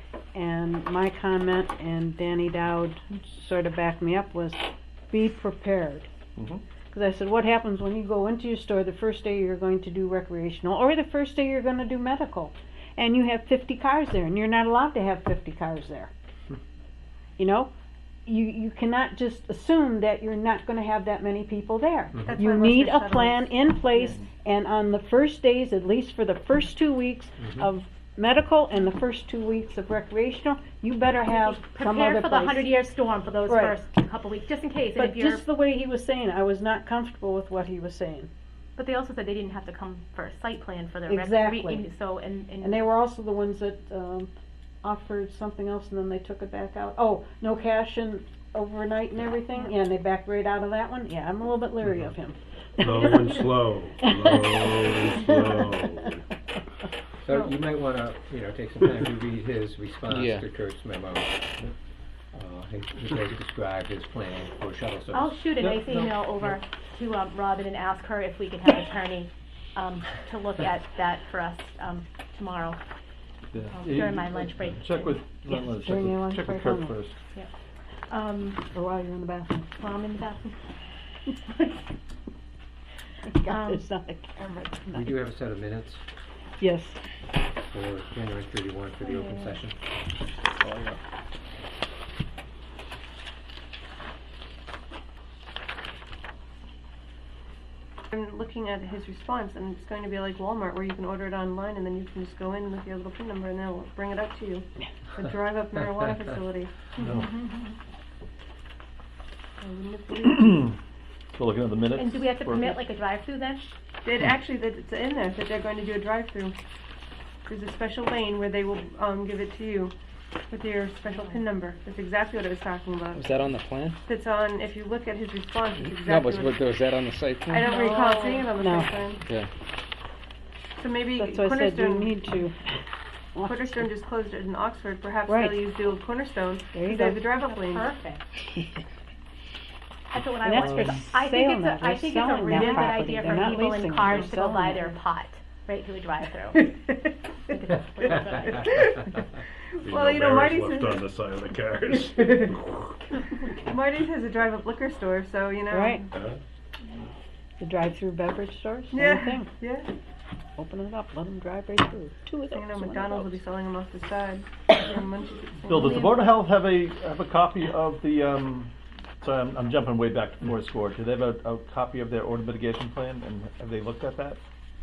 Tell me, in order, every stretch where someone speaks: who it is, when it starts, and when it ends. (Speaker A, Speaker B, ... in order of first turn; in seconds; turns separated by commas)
Speaker A: 0.3-6.1, Speaker B: 6.4-6.6, Speaker A: 6.9-16.1, Speaker A: 17.4-17.7, Speaker A: 18.3-32.7, Speaker C: 22.1-22.4, Speaker D: 22.2-23.6, Speaker C: 27.4-27.7, Speaker E: 31.3-35.4, Speaker A: 33.5-33.8, Speaker A: 35.0-38.3, Speaker E: 38.8-42.9, Speaker A: 41.1-41.9, Speaker A: 42.6-44.3, Speaker A: 44.8-55.9, Speaker F: 52.8-56.2, Speaker C: 57.2-61.5, Speaker G: 60.1-60.4, Speaker C: 62.3-66.1, Speaker E: 65.1-72.8, Speaker B: 73.5-77.2, Speaker E: 73.7-75.2, Speaker A: 75.5-77.0, Speaker E: 78.1-78.6, Speaker A: 78.7-79.7, Speaker E: 79.8-80.5, Speaker E: 81.3-81.8, Speaker A: 83.2-85.2, Speaker E: 83.5-83.8, Speaker C: 84.9-86.0, Speaker A: 86.6-87.0, Speaker C: 87.7-89.8, Speaker E: 89.0-89.6, Speaker B: 90.6-91.0, Speaker D: 98.1-107.2, Speaker B: 107.0-107.3, Speaker D: 109.6-110.7, Speaker B: 110.2-110.7, Speaker B: 111.3-112.8, Speaker E: 112.0-113.7, Speaker D: 114.0-116.6, Speaker D: 117.5-120.0, Speaker D: 120.5-123.3, Speaker E: 121.0-121.4, Speaker G: 123.2-124.0, Speaker D: 124.1-126.6, Speaker G: 125.8-127.7, Speaker D: 127.5-129.2, Speaker A: 127.7-129.0, Speaker D: 130.8-132.3, Speaker A: 131.2-132.6, Speaker A: 133.3-133.9, Speaker D: 133.4-137.9, Speaker A: 135.3-135.7, Speaker A: 136.7-137.3, Speaker E: 137.4-138.2, Speaker E: 140.1-148.7, Speaker A: 140.4-145.0, Speaker D: 142.5-143.6, Speaker D: 149.8-151.0, Speaker F: 149.8-152.9, Speaker D: 153.6-156.1, Speaker A: 155.7-156.1, Speaker F: 156.1-156.4, Speaker A: 157.6-159.5, Speaker D: 158.9-159.9, Speaker A: 160.6-163.4, Speaker D: 162.5-166.1, Speaker B: 165.7-174.4, Speaker E: 165.7-166.1